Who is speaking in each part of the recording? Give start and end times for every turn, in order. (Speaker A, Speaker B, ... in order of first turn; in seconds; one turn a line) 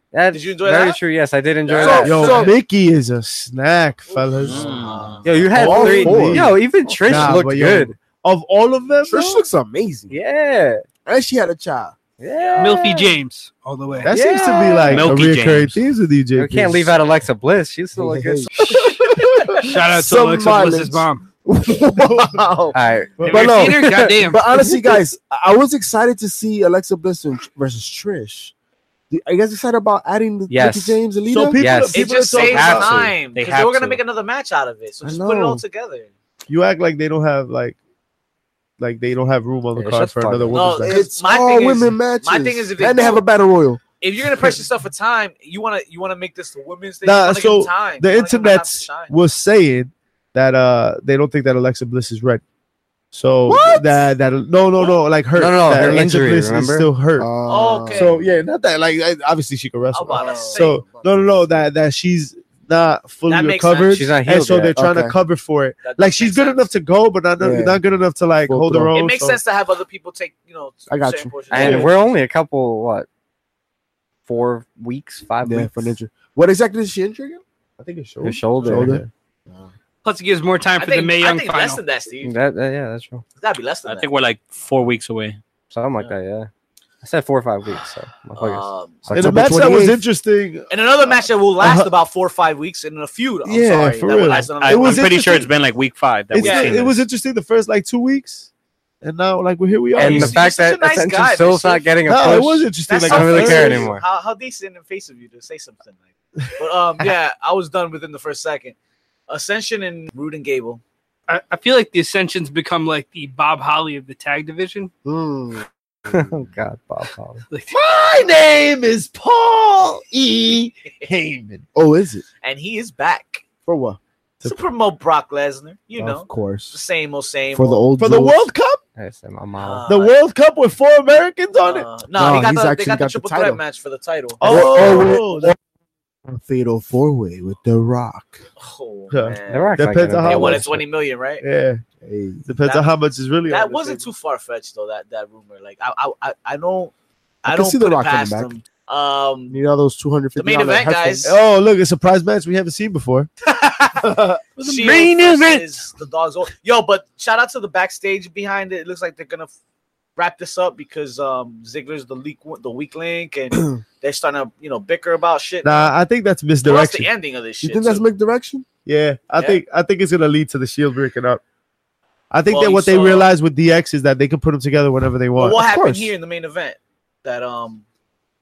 Speaker A: 0.1-2.5
Speaker B: 0.3-1.0
Speaker B: 1.7-2.5
Speaker C: 1.8-2.5
Speaker D: 1.8-4.9
Speaker E: 4.4-5.2
Speaker B: 4.5-5.3
Speaker A: 5.2-7.9
Speaker D: 5.5-9.4
Speaker C: 5.5-6.5
Speaker C: 7.1-7.4
Speaker C: 9.0-10.1
Speaker A: 10.1-10.8
Speaker C: 11.1-11.9
Speaker A: 12.2-13.0
Speaker B: 12.3-12.9
Speaker F: 12.6-14.7
Speaker D: 14.0-16.9
Speaker A: 14.1-15.2
Speaker E: 14.9-15.8
Speaker A: 16.3-19.1
Speaker C: 17.9-18.5
Speaker F: 18.7-21.2
Speaker D: 19.2-19.6
Speaker C: 19.9-22.7
Speaker D: 22.0-22.4
Speaker A: 22.7-24.1
Speaker D: 23.2-23.7
Speaker F: 23.3-24.6
Speaker C: 24.2-28.5
Speaker C: 29.1-31.6
Speaker A: 30.5-31.0
Speaker D: 31.3-33.1
Speaker A: 31.6-32.1
Speaker B: 31.9-36.1
Speaker E: 32.3-34.0
Speaker C: 35.0-35.6
Speaker D: 36.5-37.8
Speaker D: 38.8-41.0
Speaker A: 39.7-40.6
Speaker B: 40.5-43.2
Speaker C: 40.9-43.8
Speaker B: 44.0-49.1
Speaker D: 47.0-52.4
Speaker D: 53.1-57.3
Speaker C: 53.5-54.0
Speaker A: 55.3-56.9
Speaker C: 57.2-58.3
Speaker B: 57.5-58.1
Speaker D: 57.9-69.4
Speaker B: 59.9-60.8
Speaker C: 60.1-61.5
Speaker B: 63.3-64.0
Speaker A: 63.9-64.7
Speaker C: 64.7-65.2
Speaker B: 65.8-66.7
Speaker C: 67.4-67.8
Speaker C: 68.5-68.9
Speaker B: 68.9-72.1
Speaker C: 70.9-71.9
Speaker A: 71.5-73.1
Speaker D: 71.6-71.9
Speaker A: 74.3-75.9
Speaker C: 75.4-77.4
Speaker D: 77.8-79.1
Speaker A: 78.2-79.0
Speaker C: 78.6-79.7
Speaker F: 80.0-81.8
Speaker B: 80.8-82.3
Speaker A: 82.2-83.2
Speaker B: 83.4-84.1
Speaker E: 83.8-85.4
Speaker A: 85.7-86.5
Speaker A: 87.0-89.8
Speaker B: 88.4-89.0
Speaker C: 89.1-90.0
Speaker D: 89.1-91.9
Speaker B: 90.7-95.2
Speaker D: 93.5-95.5
Speaker E: 94.3-97.0
Speaker D: 96.3-98.5
Speaker B: 96.3-96.8
Speaker D: 99.0-100.4
Speaker B: 99.9-101.9
Speaker A: 100.0-104.0
Speaker D: 102.1-103.9
Speaker B: 102.8-106.0
Speaker B: 106.5-108.7
Speaker B: 109.3-110.8
Speaker F: 111.3-114.9
Speaker C: 115.0-116.1
Speaker A: 116.1-117.4
Speaker F: 117.5-117.7
Speaker D: 117.7-121.7
Speaker C: 121.7-122.2
Speaker B: 122.4-123.4
Speaker C: 123.7-124.0
Speaker B: 124.4-127.8
Speaker C: 126.0-126.8
Speaker C: 127.5-128.5
Speaker D: 128.0-128.8
Speaker A: 129.0-129.9
Speaker B: 129.6-130.1
Speaker D: 129.9-131.9
Speaker B: 131.6-135.1
Speaker C: 132.1-133.6
Speaker D: 134.4-135.6
Speaker C: 134.4-135.6
Speaker C: 136.3-138.4
Speaker B: 138.6-141.4
Speaker D: 139.1-140.7
Speaker A: 139.5-140.8
Speaker D: 141.4-141.8
Speaker C: 142.0-142.4
Speaker D: 142.4-144.1
Speaker B: 142.6-142.9
Speaker B: 143.5-146.9
Speaker B: 147.4-149.6
Speaker C: 147.4-148.5
Speaker C: 149.5-151.3
Speaker B: 150.4-151.3
Speaker D: 151.2-153.3
Speaker B: 153.4-159.5
Speaker D: 154.0-154.5
Speaker E: 154.6-155.8
Speaker B: 160.2-165.9
Speaker D: 165.6-167.1
Speaker B: 166.6-168.0
Speaker C: 167.6-168.7
Speaker D: 168.8-171.4
Speaker D: 172.3-175.7
Speaker B: 172.5-173.3
Speaker B: 175.3-177.8
Speaker C: 175.6-176.1